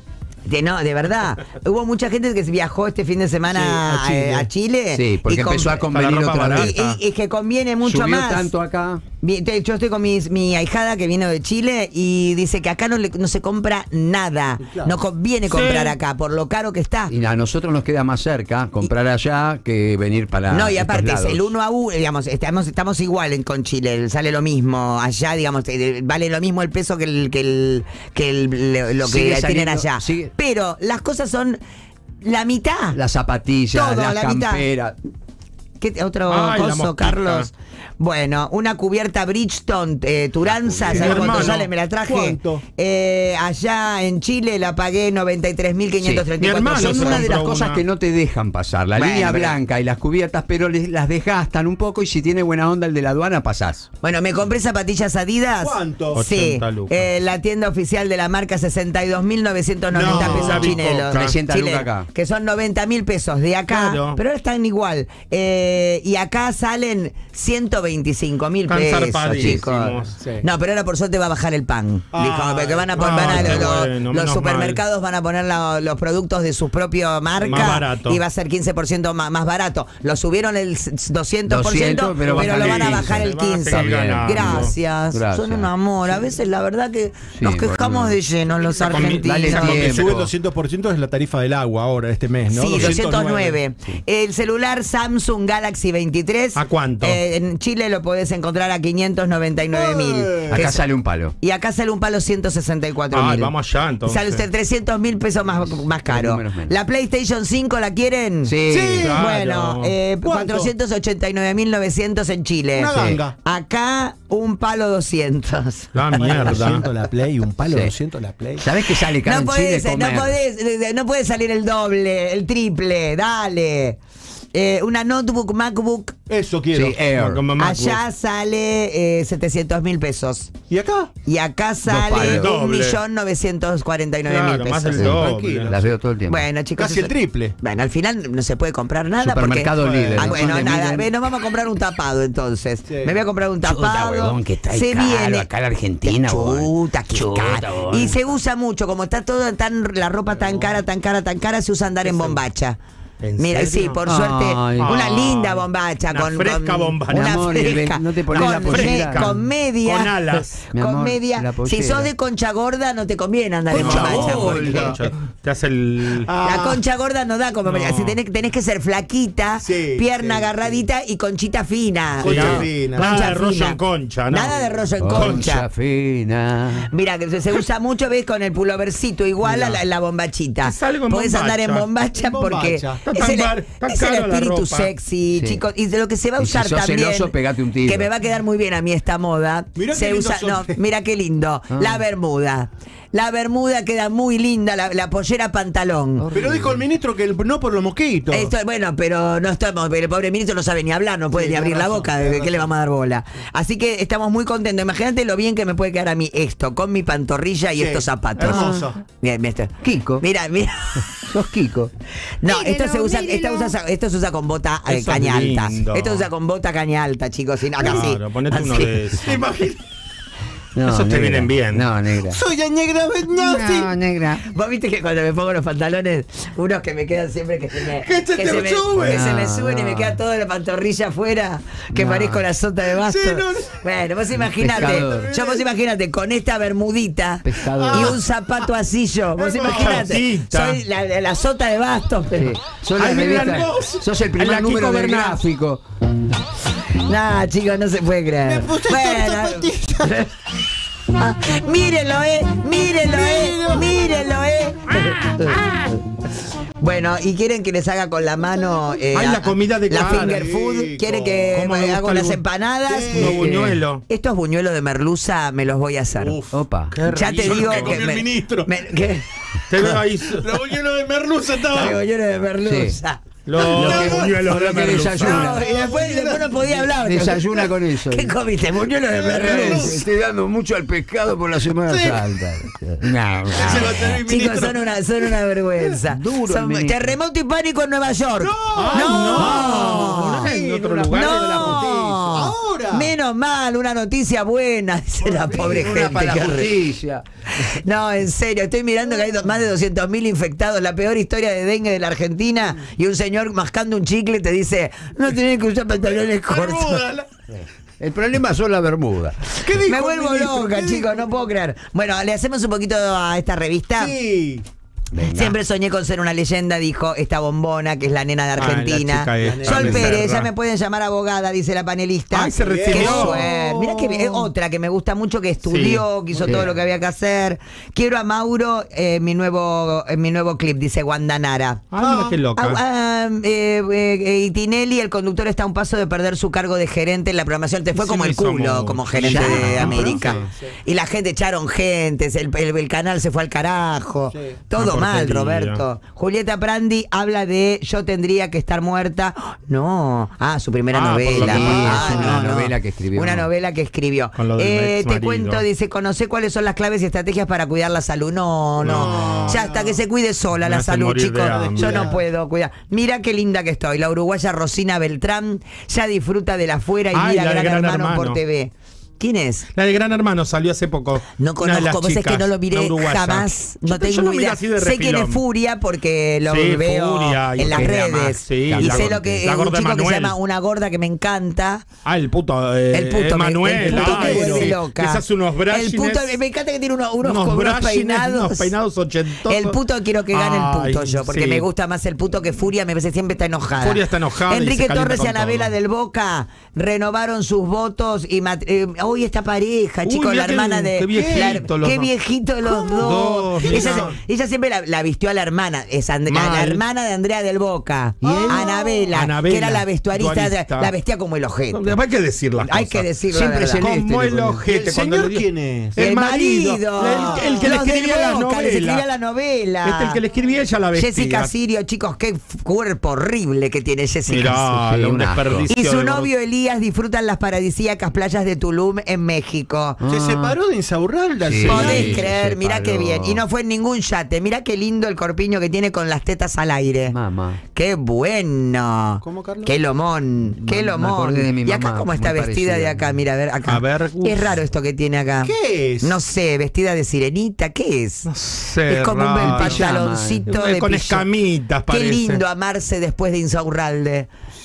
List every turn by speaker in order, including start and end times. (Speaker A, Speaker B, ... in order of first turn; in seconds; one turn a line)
Speaker A: 0.5-5.9
Speaker B: 3.5-6.7
Speaker C: 5.9-7.0
Speaker A: 6.5-8.5
Speaker B: 7.8-9.0
Speaker A: 9.2-17.1
Speaker D: 14.6-14.9
Speaker C: 15.5-15.9
Speaker B: 17.1-21.5
Speaker A: 20.5-31.6
Speaker B: 29.0-30.3
Speaker A: 32.2-33.0
Speaker B: 32.9-35.0
Speaker A: 33.7-34.6
Speaker A: 35.8-37.5
Speaker C: 36.3-37.5
Speaker A: 38.0-47.3
Speaker B: 40.4-41.5
Speaker D: 40.8-42.6
Speaker C: 40.9-41.6
Speaker B: 46.0-53.9
Speaker C: 46.4-47.8
Speaker A: 49.0-49.6
Speaker A: 54.0-89.7
Speaker D: 55.6-56.2
Speaker C: 56.1-57.1
Speaker C: 59.9-61.3
Speaker B: 60.1-62.1
Speaker C: 63.7-64.2
Speaker C: 68.7-70.2
Speaker B: 69.3-69.6
Speaker D: 70.2-70.4
Speaker D: 72.1-73.6
Speaker C: 73.0-74.8
Speaker B: 73.1-73.7
Speaker D: 77.4-77.7
Speaker C: 77.4-78.2
Speaker B: 81.5-86.2
Speaker C: 82.2-84.7
Speaker B: 87.3-88.2
Speaker C: 88.8-90.3
Speaker B: 89.0-90.2
Speaker D: 89.6-93.6
Speaker A: 92.5-100.8
Speaker C: 96.5-97.2
Speaker D: 99.7-100.6
Speaker B: 100.5-101.3
Speaker A: 101.4-103.5
Speaker C: 103.1-104.4
Speaker A: 104.0-108.5
Speaker B: 106.1-106.7
Speaker B: 108.5-109.1
Speaker D: 108.7-109.2
Speaker C: 109.0-109.9
Speaker A: 109.1-115.9
Speaker D: 110.2-110.7
Speaker D: 112.7-113.3
Speaker B: 112.9-113.2
Speaker C: 115.9-116.8
Speaker D: 116.2-118.7
Speaker B: 117.7-117.9
Speaker B: 118.6-120.4
Speaker A: 119.2-124.0
Speaker A: 124.5-126.1
Speaker D: 126.3-127.0
Speaker B: 126.7-127.4
Speaker C: 127.1-128.0
Speaker A: 127.6-130.5
Speaker D: 130.7-131.1
Speaker A: 131.2-135.1
Speaker B: 131.8-132.6
Speaker C: 132.1-133.0
Speaker C: 134.3-135.7
Speaker B: 134.9-136.5
Speaker D: 135.0-135.9
Speaker A: 136.3-145.5
Speaker D: 136.8-137.5
Speaker B: 139.2-141.1
Speaker D: 139.8-140.7
Speaker D: 142.9-143.2
Speaker B: 143.6-148.2
Speaker A: 146.0-152.8
Speaker D: 150.3-150.8
Speaker D: 152.0-152.4
Speaker C: 153.2-154.0
Speaker A: 153.4-160.1
Speaker B: 154.0-154.9
Speaker C: 154.8-157.8
Speaker B: 157.1-159.3
Speaker C: 158.3-160.6
Speaker B: 160.6-162.1
Speaker A: 160.7-164.9
Speaker B: 163.7-165.0
Speaker C: 163.7-166.3
Speaker D: 163.8-164.9
Speaker D: 166.2-166.8
Speaker A: 166.4-173.8
Speaker C: 167.6-168.2
Speaker D: 169.6-170.8
Speaker D: 172.2-173.3
Speaker C: 172.2-175.5
Speaker A: 174.3-175.7
Speaker D: 174.4-174.7
Speaker B: 175.0-176.9
Speaker A: 176.9-196.3
Speaker C: 180.6-181.9
Speaker D: 182.1-183.1
Speaker C: 183.1-184.9
Speaker B: 185.3-185.6
Speaker B: 186.4-188.1
Speaker D: 189.8-190.8
Speaker B: 191.7-192.0
Speaker B: 196.2-196.8
Speaker D: 196.3-198.5
Speaker A: 198.3-211.1
Speaker D: 201.3-202.7
Speaker D: 207.7-209.0
Speaker B: 208.4-208.9
Speaker B: 209.8-210.2
Speaker B: 211.2-211.9
Speaker A: 212.4-219.1
Speaker B: 212.5-213.7
Speaker C: 214.8-216.3
Speaker C: 217.8-219.3
Speaker D: 219.2-219.8
Speaker B: 220.7-222.4
Speaker C: 220.8-221.9
Speaker D: 222.2-223.9
Speaker B: 223.3-224.5
Speaker A: 224.4-242.6
Speaker D: 227.9-229.3
Speaker B: 229.0-230.2
Speaker B: 231.9-232.4
Speaker D: 232.9-233.8
Speaker B: 234.4-235.3
Speaker D: 234.8-235.6
Speaker B: 237.4-238.2
Speaker D: 237.7-238.7
Speaker D: 239.4-240.1
Speaker C: 239.6-240.8
Speaker B: 242.3-245.8
Speaker C: 243.0-243.7
Speaker D: 243.0-244.0
Speaker C: 244.3-245.4
Speaker A: 247.0-250.2
Speaker D: 248.4-250.2
Speaker A: 251.2-255.6
Speaker D: 252.9-254.3
Speaker C: 254.9-255.9
Speaker A: 256.8-263.4
Speaker C: 259.1-260.5
Speaker D: 259.9-261.6
Speaker C: 261.5-262.4
Speaker D: 262.9-263.3
Speaker C: 263.1-264.0
Speaker B: 263.1-263.8
Speaker A: 264.1-266.4
Speaker D: 266.2-266.6
Speaker B: 266.5-266.9
Speaker C: 266.9-268.1
Speaker A: 267.1-269.2
Speaker D: 267.2-268.7
Speaker C: 269.7-270.5
Speaker D: 269.8-272.0
Speaker A: 271.7-273.2
Speaker B: 272.6-273.0
Speaker C: 273.4-275.5
Speaker D: 273.6-276.9
Speaker B: 273.6-275.6
Speaker A: 275.3-277.5
Speaker B: 277.0-278.3
Speaker A: 278.1-279.9
Speaker D: 279.2-280.0
Speaker B: 279.2-284.1
Speaker D: 281.9-282.2
Speaker D: 283.5-284.8
Speaker A: 283.6-290.5
Speaker B: 286.0-287.1
Speaker D: 288.4-290.2
Speaker C: 288.7-292.1
Speaker B: 289.7-292.3
Speaker A: 291.1-296.7
Speaker D: 291.5-293.1
Speaker D: 295.2-296.3
Speaker B: 295.3-297.8
Speaker A: 297.6-307.0
Speaker D: 305.9-307.3
Speaker B: 308.0-309.4
Speaker D: 309.6-311.5
Speaker A: 309.8-314.1
Speaker D: 314.0-314.6
Speaker B: 315.1-315.6
Speaker A: 315.2-331.8
Speaker C: 318.6-320.5
Speaker D: 319.4-320.2
Speaker C: 322.3-323.4
Speaker D: 322.5-324.5
Speaker C: 325.6-326.0
Speaker D: 326.3-326.8
Speaker B: 326.4-326.7
Speaker C: 331.9-332.8
Speaker D: 332.0-332.4
Speaker A: 332.6-369.7
Speaker C: 337.9-340.4
Speaker B: 339.1-340.2
Speaker D: 339.5-340.7
Speaker D: 344.3-344.6
Speaker C: 344.8-345.8
Speaker C: 350.9-352.4
Speaker B: 351.3-353.5
Speaker D: 351.7-352.3
Speaker C: 354.4-355.6
Speaker D: 358.8-360.0
Speaker C: 358.8-359.6
Speaker C: 360.6-362.1
Speaker D: 361.5-362.2
Speaker C: 367.1-368.4
Speaker C: 369.7-375.4
Speaker A: 371.4-381.8
Speaker C: 376.5-380.3
Speaker B: 377.6-378.0
Speaker B: 378.6-379.5
Speaker C: 382.0-386.4
Speaker A: 382.9-388.7
Speaker D: 383.8-384.7
Speaker C: 387.2-389.8
Speaker A: 389.4-411.9
Speaker C: 390.3-391.6
Speaker C: 393.8-395.7
Speaker C: 400.1-402.1
Speaker D: 401.1-401.6
Speaker D: 402.8-403.1
Speaker C: 403.0-404.1
Speaker D: 403.6-404.1
Speaker C: 406.3-406.8
Speaker B: 408.2-408.6
Speaker D: 408.2-409.1
Speaker C: 409.1-410.9
Speaker C: 411.7-413.1
Speaker A: 412.6-413.9
Speaker B: 413.3-414.6
Speaker C: 413.8-419.0
Speaker D: 414.6-416.0
Speaker A: 416.0-420.2
Speaker D: 417.0-417.8
Speaker C: 419.8-421.5
Speaker A: 420.9-424.6
Speaker C: 424.3-426.3
Speaker B: 424.6-425.7
Speaker A: 425.7-430.0
Speaker B: 430.0-430.6
Speaker D: 430.1-432.2
Speaker B: 431.4-433.4
Speaker C: 431.5-432.1
Speaker A: 431.7-437.1
Speaker B: 437.1-437.6
Speaker A: 437.7-448.3
Speaker D: 439.2-439.8
Speaker B: 440.6-443.2
Speaker C: 443.6-444.6
Speaker D: 445.4-446.1
Speaker C: 448.2-449.9
Speaker A: 448.9-451.2
Speaker B: 449.3-450.4
Speaker C: 450.5-452.4
Speaker A: 451.9-454.3